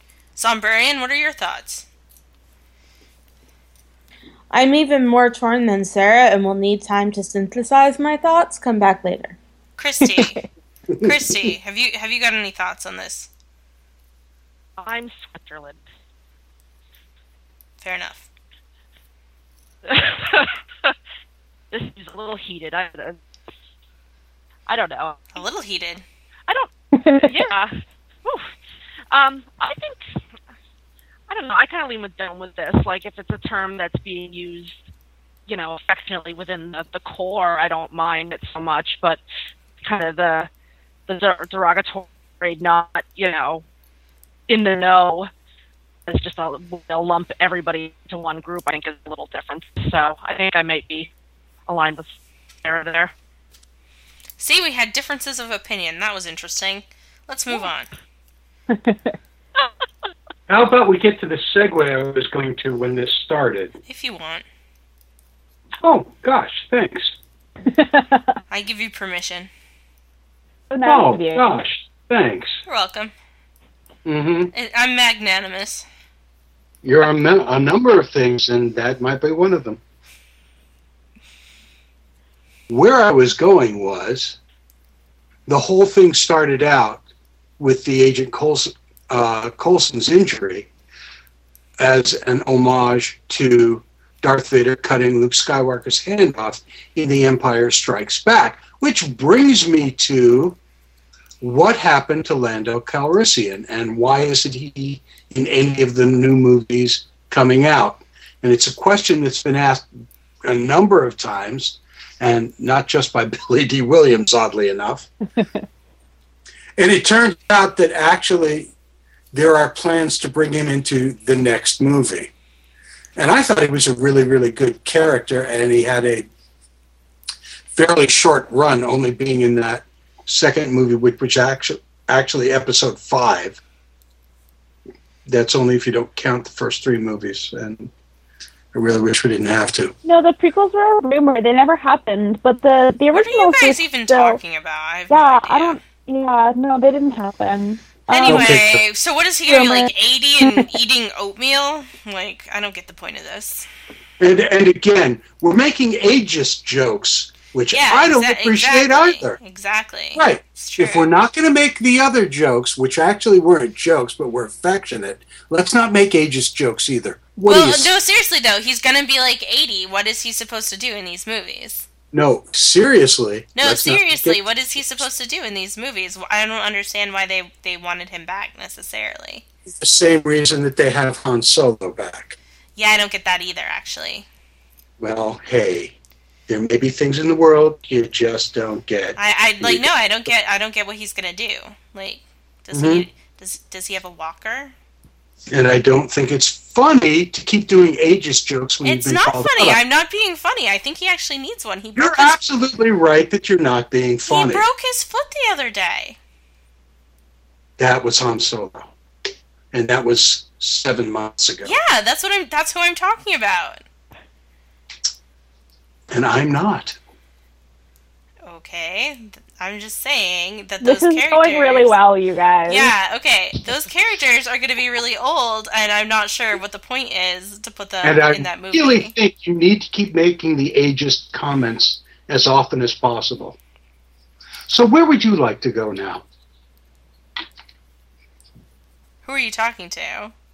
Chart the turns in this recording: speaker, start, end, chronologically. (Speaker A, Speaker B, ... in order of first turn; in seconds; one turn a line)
Speaker A: 0.3-1.9
Speaker B: 4.5-9.4
Speaker A: 9.8-10.4
Speaker C: 10.9-11.5
Speaker A: 11.0-13.3
Speaker D: 14.8-15.8
Speaker A: 17.8-18.3
Speaker D: 19.9-20.5
Speaker D: 21.7-23.2
Speaker D: 24.7-25.2
Speaker A: 25.3-26.0
Speaker E: 26.9-27.3
Speaker D: 27.2-28.5
Speaker D: 29.1-30.0
Speaker D: 31.3-34.8
Speaker D: 35.5-39.2
Speaker D: 39.8-40.5
Speaker D: 41.1-43.6
Speaker D: 44.5-45.3
Speaker D: 46.1-51.1
Speaker D: 51.7-53.1
Speaker A: 54.4-57.9
Speaker E: 58.7-59.1
Speaker C: 60.5-63.7
Speaker A: 63.9-64.4
Speaker C: 65.8-67.2
Speaker E: 67.7-68.3
Speaker A: 68.5-69.5
Speaker E: 70.7-71.5
Speaker C: 70.8-72.6
Speaker A: 72.7-73.1
Speaker C: 74.0-74.5
Speaker A: 74.5-75.8
Speaker C: 76.8-79.8
Speaker C: 82.7-84.4
Speaker C: 85.5-87.0
Speaker C: 87.6-90.7
Speaker C: 91.8-100.6
Speaker C: 101.4-109.9
Speaker C: 110.4-115.1
Speaker C: 116.8-118.7
Speaker C: 119.3-122.3
Speaker C: 123.2-126.3
Speaker C: 127.7-133.6
Speaker C: 135.2-137.9
Speaker C: 138.7-139.9
Speaker E: 140.0-144.4
Speaker A: 143.1-145.8
Speaker E: 145.1-148.5
Speaker A: 148.1-153.7
Speaker C: 148.3-148.8
Speaker E: 149.5-149.9
Speaker C: 154.2-159.4
Speaker A: 157.7-161.1
Speaker C: 160.1-167.9
Speaker A: 167.4-171.8
Speaker C: 172.1-175.1
Speaker A: 173.6-179.4
Speaker C: 179.7-182.4
Speaker A: 182.8-184.2
Speaker C: 185.0-185.9
Speaker C: 186.5-189.9
Speaker A: 189.2-194.7
Speaker C: 192.7-193.1
Speaker C: 195.5-199.8
Speaker A: 198.8-202.4
Speaker C: 201.9-204.7
Speaker A: 204.3-206.2
Speaker C: 207.8-208.9
Speaker C: 209.7-211.7
Speaker A: 211.6-213.8
Speaker C: 216.1-217.0
Speaker A: 218.4-221.9
Speaker E: 220.8-222.9
Speaker A: 222.7-229.1
Speaker C: 228.0-233.6
Speaker C: 234.7-236.2
Speaker A: 239.2-240.3